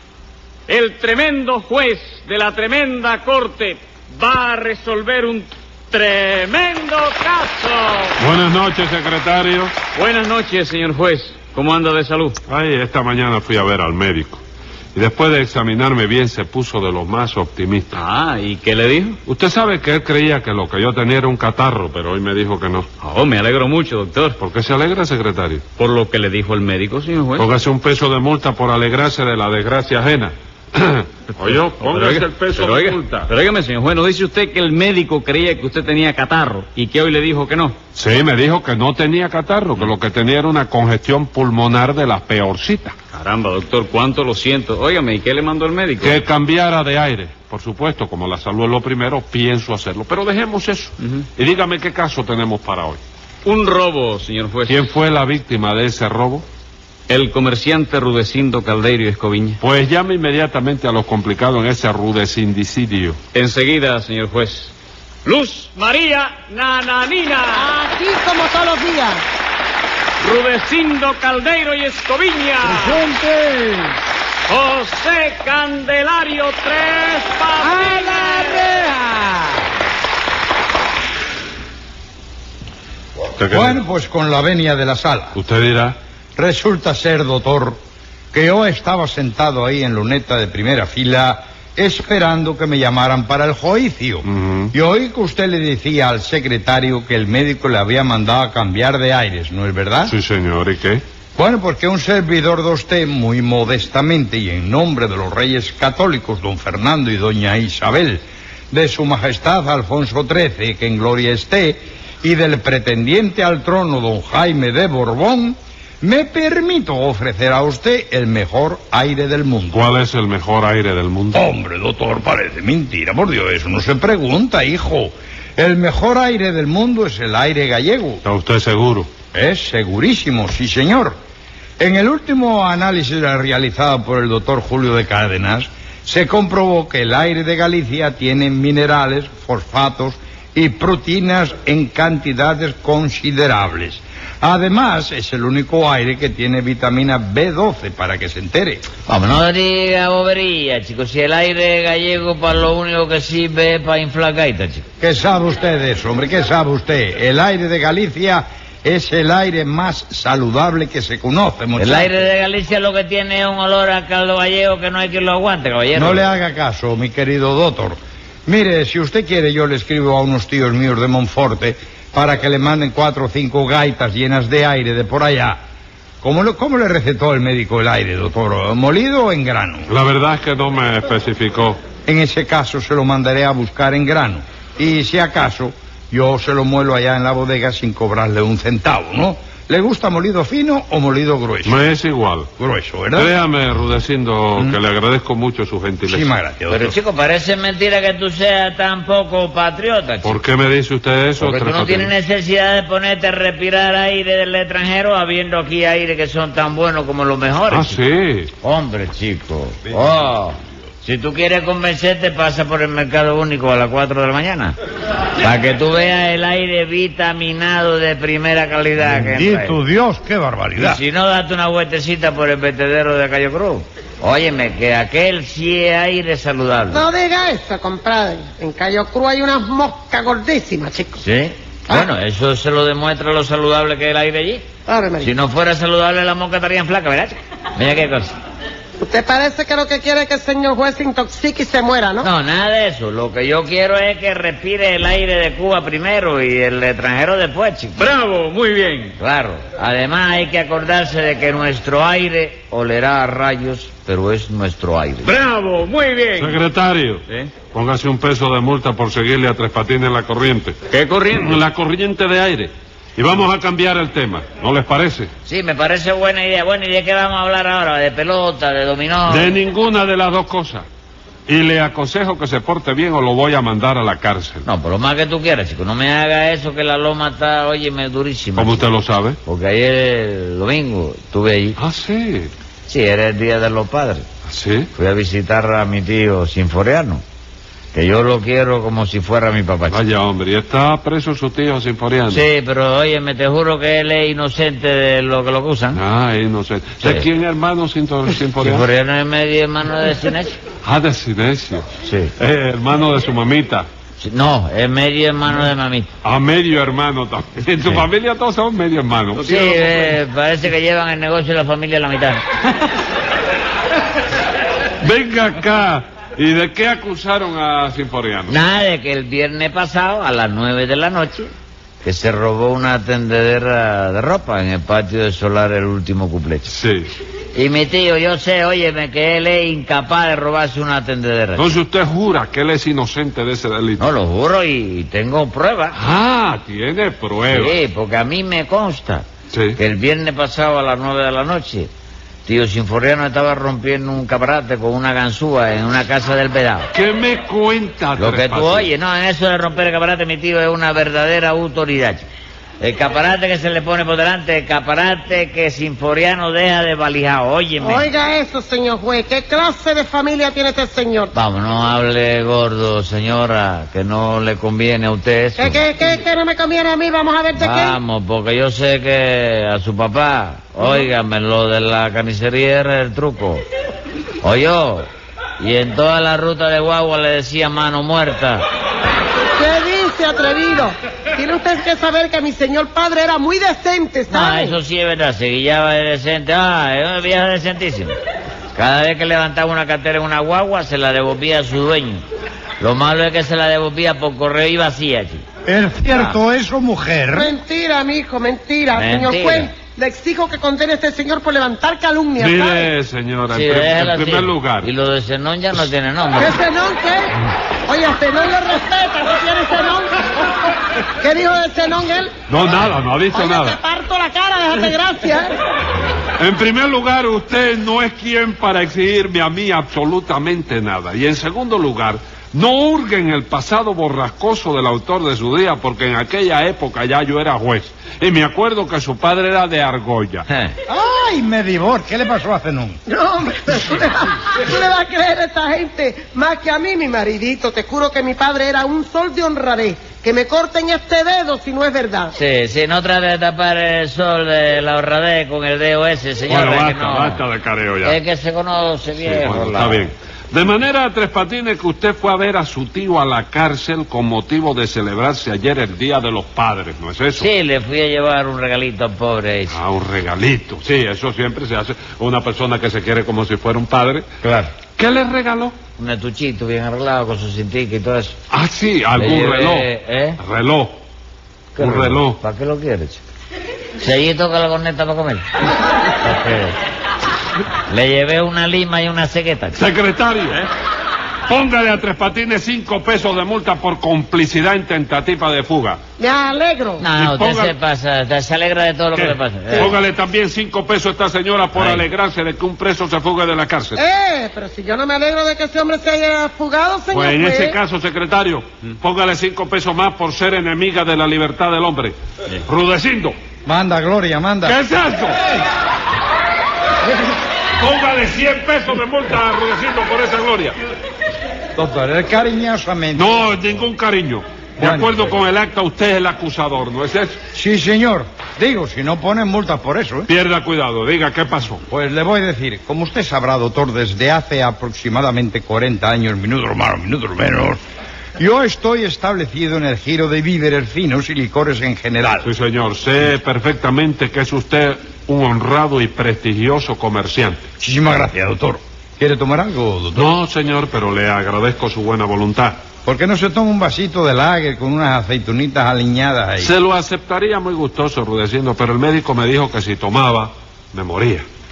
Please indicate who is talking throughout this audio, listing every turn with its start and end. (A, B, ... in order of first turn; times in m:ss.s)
0:00.7-0:08.2 A
0:08.2-0:09.7 B
0:09.9-0:12.4 A
0:12.5-0:14.4 B
0:14.9-0:18.0 B
0:17.9-0:19.2 A
0:19.2-0:22.9 B
0:23.0-0:24.4 A
0:24.4-0:25.6 B
0:25.8-0:27.5 A
0:27.4-0:33.3 B
0:31.4-0:37.8 A
0:37.9-0:43.0 B
0:43.1-0:46.2 A
0:46.0-0:53.0 B
0:53.4-0:54.9 A
0:54.7-0:56.4 B
0:57.1-0:59.6 A
0:59.6-1:03.2 B
1:03.3-1:04.7 A
1:05.2-1:07.7 A
1:07.5-1:09.2 C
1:10.2-1:13.8 A
1:14.5-1:19.1 A
1:23.4-1:23.8 B
1:23.5-1:25.4 D
1:25.3-1:26.0 B
1:26.4-1:27.8 D
1:28.3-1:40.1 D
1:34.2-1:34.7 B
1:40.0-1:41.0 B
1:41.4-1:59.8 D
1:59.7-2:01.4 B
2:01.3-2:08.2 D
2:08.2-2:09.1 B
2:09.3-2:11.1 D
2:11.8-2:28.8 D
2:29.0-2:34.8 E
2:35.0-2:42.3 D
2:41.8-2:46.2 E
2:45.9-2:55.6 D
2:56.2-2:59.9 D
2:59.9-3:01.8 B
3:02.0-3:11.9 D
3:11.6-3:12.5 B
3:12.6-3:13.3 D
3:13.1-3:16.3 B
3:16.0-3:17.0 D
3:16.7-3:20.4 E
3:20.2-3:22.1 B
3:21.4-3:28.0 E
3:27.7-3:28.5 B
3:28.6-3:34.7 E
3:29.8-3:30.2 D
3:35.4-3:39.8 E
3:39.0-3:41.0 D
3:40.8-3:47.0 E
3:46.9-3:51.2 C
3:51.2-3:54.6 E
3:54.9-3:55.3 C
3:55.2-3:58.3 E
3:59.0-4:02.3 C
4:02.2-4:08.0 E
4:08.0-4:09.2 A
4:09.2-4:15.3 E
4:15.2-4:16.6 A
4:16.4-4:20.8 B
4:17.3-4:17.5 A
4:20.9-4:21.6 A
4:21.3-4:25.3 B
4:25.4-4:29.5 E
4:29.3-4:30.8 B
4:31.5-4:34.6 B
4:34.6-4:38.8 E
4:38.6-4:39.4 B
4:39.4-4:41.8 E
4:41.8-4:42.5 B
4:42.8-4:44.2 E
4:44.4-4:44.9 B
4:44.9-4:47.2 E
4:47.9-4:50.0 E
4:49.9-4:52.4 B
4:52.3-4:56.0 E
4:55.9-4:58.9 B
4:58.6-5:00.6 E
5:00.8-5:03.9 B
5:02.0-5:02.3 E
5:04.2-5:06.1 E
5:06.2-5:09.6 B
5:09.4-5:12.4 E
5:15.0-5:18.6 B
5:18.5-5:21.5 E
5:22.0-5:26.7 E
5:26.7-5:27.1 B
5:27.5-5:31.7 E
5:31.6-5:34.0 B
5:34.0-5:36.0 E
5:35.9-5:37.8 B
5:37.5-5:39.2 E
5:39.5-5:39.8 B
5:39.8-5:41.9 E
5:42.4-5:46.9 E
5:46.9-5:48.9 B
5:48.2-5:52.3 E
5:52.8-5:58.1 E
5:57.8-6:01.3 C
6:01.3-6:05.8 E
6:05.6-6:08.0 C
6:07.6-6:13.6 E
6:14.4-6:18.6 E
6:19.6-6:24.8 C
6:24.3-6:28.1 E
6:28.7-6:32.2 E
6:32.8-6:35.4 E
6:35.6-6:37.5 D
6:36.1-6:36.4 E
6:37.3-6:42.9 C
6:38.9-6:39.7 E
6:42.4-6:44.9 B
6:43.5-6:46.6 E
6:46.4-6:50.4 C
6:51.2-6:52.3 C
6:52.5-6:53.8 B
6:53.3-6:55.5 C
6:56.4-7:10.5 B
7:10.5-7:10.7 E
7:10.9-7:13.0 D
7:13.1-7:22.3 C
7:22.3-7:27.4 E
7:26.5-7:28.2 B
7:28.0-7:30.1 E
7:29.2-7:37.5 B
7:37.4-7:39.8 E
7:39.7-7:44.3 B
7:44.4-7:44.7 E
7:45.0-7:45.7 B
7:46.0-7:48.4 E
7:48.5-7:49.9 B
7:49.1-7:50.4 E
7:50.4-7:51.0 B
7:51.8-7:53.2 E
7:51.8-7:52.4 B
7:54.0-7:55.4 E
7:56.2-7:56.7 E
7:57.9-7:59.8 E
7:59.8-8:00.7 B
8:01.5-8:06.0 B
8:06.2-8:07.0 C
8:07.0-8:10.0 E
8:07.1-8:07.7 B
8:09.1-8:14.0 B
8:11.8-8:12.0 E
8:14.0-8:17.8 C
8:17.1-8:23.3 B
8:23.6-8:24.8 D
8:24.6-8:25.6 B
8:27.8-8:30.8 B
8:31.7-8:33.8 D
8:33.2-8:37.4 B
8:34.8-8:35.2 D
8:37.5-8:40.3 D
8:40.3-8:41.8 B
8:41.9-8:47.8 D
8:48.4-8:52.5 D
8:52.4-8:57.6 B
8:57.8-9:00.3 D
9:00.1-9:02.8 B
9:03.0-9:06.7 D
9:06.6-9:11.4 B